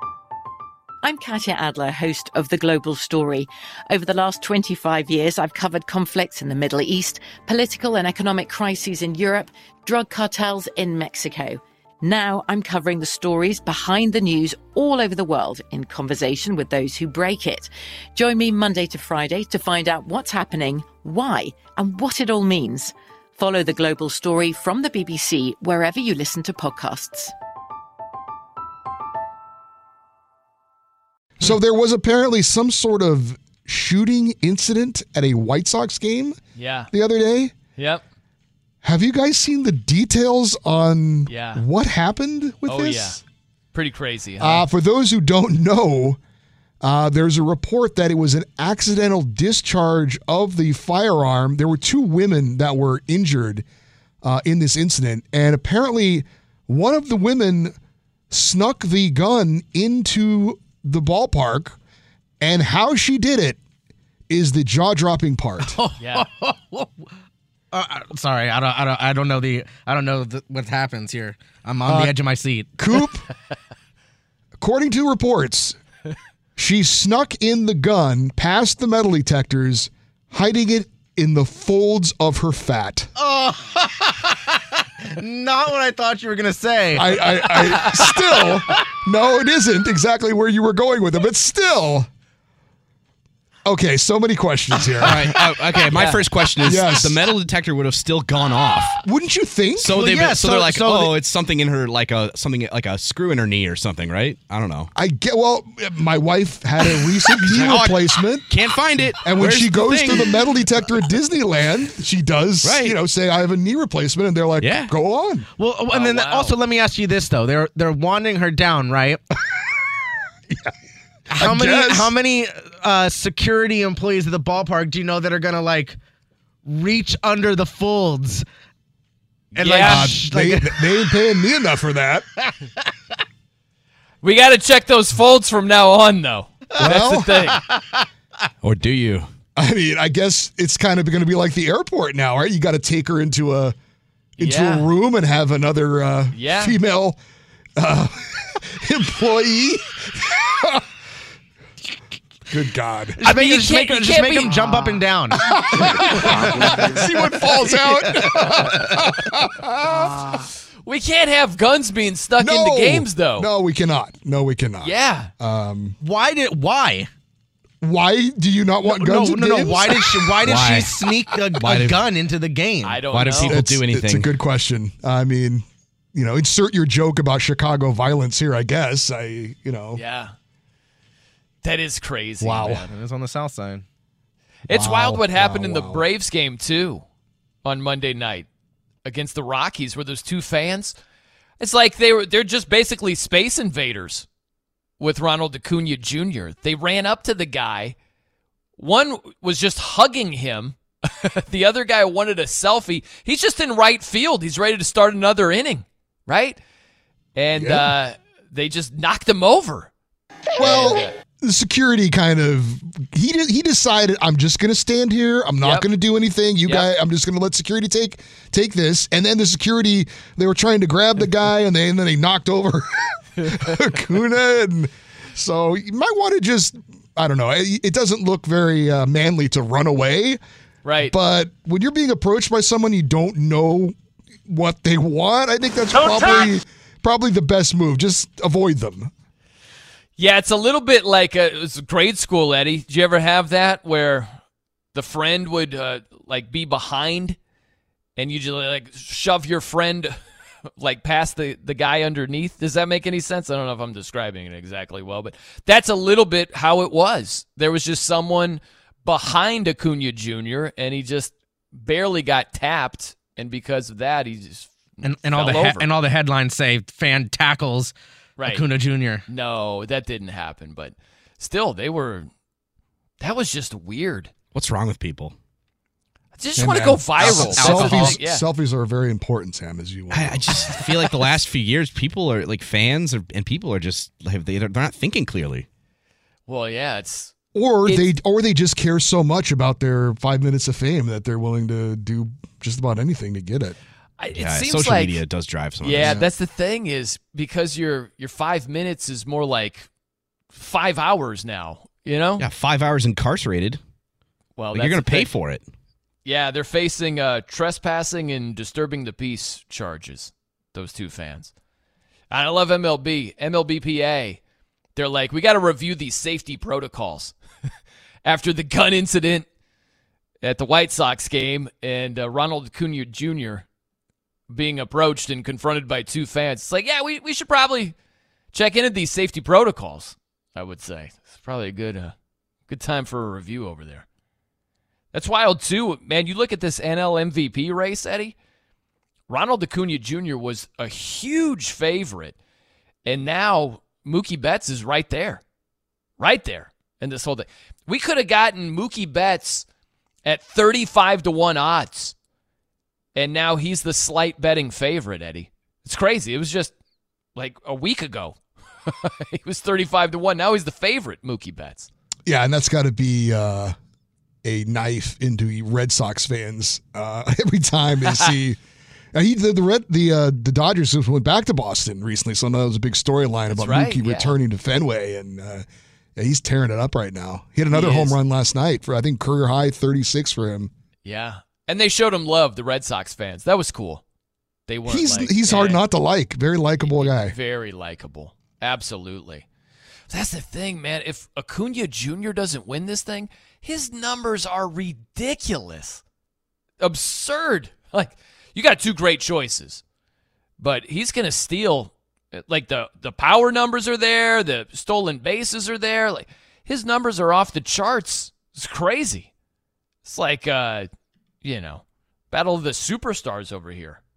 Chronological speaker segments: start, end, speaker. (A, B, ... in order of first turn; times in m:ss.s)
0:01.0-0:27.3 A
0:31.4-0:36.4 B
0:36.6-0:36.9 C
0:36.9-0:37.5 B
0:37.8-0:38.0 C
0:38.8-0:43.2 B
0:41.3-0:41.6 C
0:42.7-0:43.2 C
0:43.7-0:44.7 C
0:44.4-0:46.2 B
0:46.8-0:53.6 B
0:54.2-0:57.8 B
0:58.3-1:01.8 B
1:02.4-1:03.6 B
1:04.3-1:05.8 B
1:05.6-1:07.1 D
1:06.0-1:06.3 C
1:07.7-1:13.0 D
1:11.9-1:12.1 B
1:12.8-1:13.3 B
1:14.6-1:15.8 B
1:16.6-1:23.1 B
1:23.2-1:24.6 D
1:25.2-1:28.6 D
1:26.9-1:32.1 B
1:33.6-1:35.5 B
1:34.9-1:39.0 E
1:35.2-1:35.5 D
1:35.9-1:36.2 C
1:36.6-1:37.2 B
1:39.0-1:40.0 B
1:39.8-1:44.9 E
1:39.9-1:41.2 D
1:44.9-1:48.5 B
1:47.3-1:50.3 E
1:47.5-1:47.9 D
1:48.5-1:50.4 D
1:49.2-1:55.5 B
1:52.6-1:53.0 E
1:55.6-1:59.2 D
1:55.9-1:56.6 C
2:01.3-2:06.0 D
2:01.4-2:02.1 B
2:06.7-2:08.4 D
2:09.5-2:11.1 D
2:09.6-2:10.1 C
2:09.8-2:12.3 B
2:14.2-2:17.6 C
2:16.8-2:17.4 B
2:16.8-2:18.0 D
2:18.6-2:19.3 E
2:19.6-2:23.7 B
2:24.4-2:27.2 B
2:24.4-2:24.9 C
2:26.3-2:26.8 C
2:27.8-2:30.8 B
2:32.5-2:33.2 B
2:33.2-2:38.9 D
2:33.2-2:34.6 C
2:35.4-2:40.2 B
2:39.8-2:40.5 D
2:40.8-2:43.5 C
2:42.4-2:46.0 B
2:44.8-2:45.3 C
2:46.0-2:47.1 D
2:47.8-2:50.5 B
2:48.9-2:53.1 D
2:50.4-2:51.0 E
2:51.7-2:52.0 E
2:52.8-2:53.6 C
2:53.1-2:54.3 E
2:53.4-3:00.0 B
3:00.0-3:00.4 C
3:01.6-3:02.9 C
3:02.4-3:02.8 B
3:02.7-3:03.8 D
3:04.7-3:07.0 C
3:04.7-3:06.1 B
3:07.6-3:08.5 C
3:09.0-3:11.0 C
3:11.6-3:14.3 C
3:15.0-3:18.0 C
3:18.8-3:26.6 C
3:27.4-3:29.9 C
3:27.6-3:27.9 B
3:30.6-3:31.1 C
3:30.6-3:50.4 B
3:35.6-3:35.9 C
3:36.6-3:36.9 C
3:43.4-3:43.7 C
3:50.8-3:51.1 C
3:51.0-3:54.0 B
3:54.5-3:59.1 B
3:55.9-3:56.5 C
4:00.2-4:04.4 C
4:04.9-4:07.4 C
4:08.2-4:10.2 C
4:10.8-4:25.9 C
4:25.0-4:29.2 D
4:28.4-4:28.6 C
4:29.3-4:32.3 C
4:33.2-4:34.3 C
4:34.5-4:35.4 E
4:36.4-4:38.4 C
4:36.6-4:40.6 B
4:37.2-4:38.0 D
4:37.5-4:38.1 E
4:40.1-4:45.7 E
4:46.5-4:47.3 C
4:47.5-4:53.8 B
4:54.2-4:55.2 C
4:54.3-4:56.3 E
4:55.8-4:59.9 C
4:56.0-4:56.2 B
5:00.5-5:02.4 C
5:02.4-5:03.8 E
5:04.6-5:05.3 C
5:04.7-5:05.7 E
5:06.2-5:11.5 C
5:12.3-5:14.4 C
5:15.0-5:17.4 C
5:18.2-5:19.5 C
5:20.4-5:23.7 C
5:24.5-5:28.0 C
5:28.5-5:32.1 C
5:32.7-5:34.1 C
5:35.1-5:38.4 C
5:39.3-5:42.4 C
5:43.0-5:45.4 C
5:46.2-5:49.7 C
5:50.2-5:52.1 C
5:53.1-5:56.7 C
5:57.4-6:01.9 C
6:02.3-6:03.7 B
6:04.4-6:08.6 B
6:08.1-6:08.3 C
6:09.1-6:15.6 B
6:13.5-6:14.4 C
6:16.2-6:20.7 B
6:17.7-6:18.2 C
6:21.0-6:24.0 C
6:24.7-6:25.8 C
6:24.9-6:27.4 B
6:26.8-6:29.4 C
6:30.1-6:36.0 C
6:36.8-6:39.8 C
6:40.6-6:49.3 C
6:50.0-6:50.9 C
6:51.4-6:54.0 C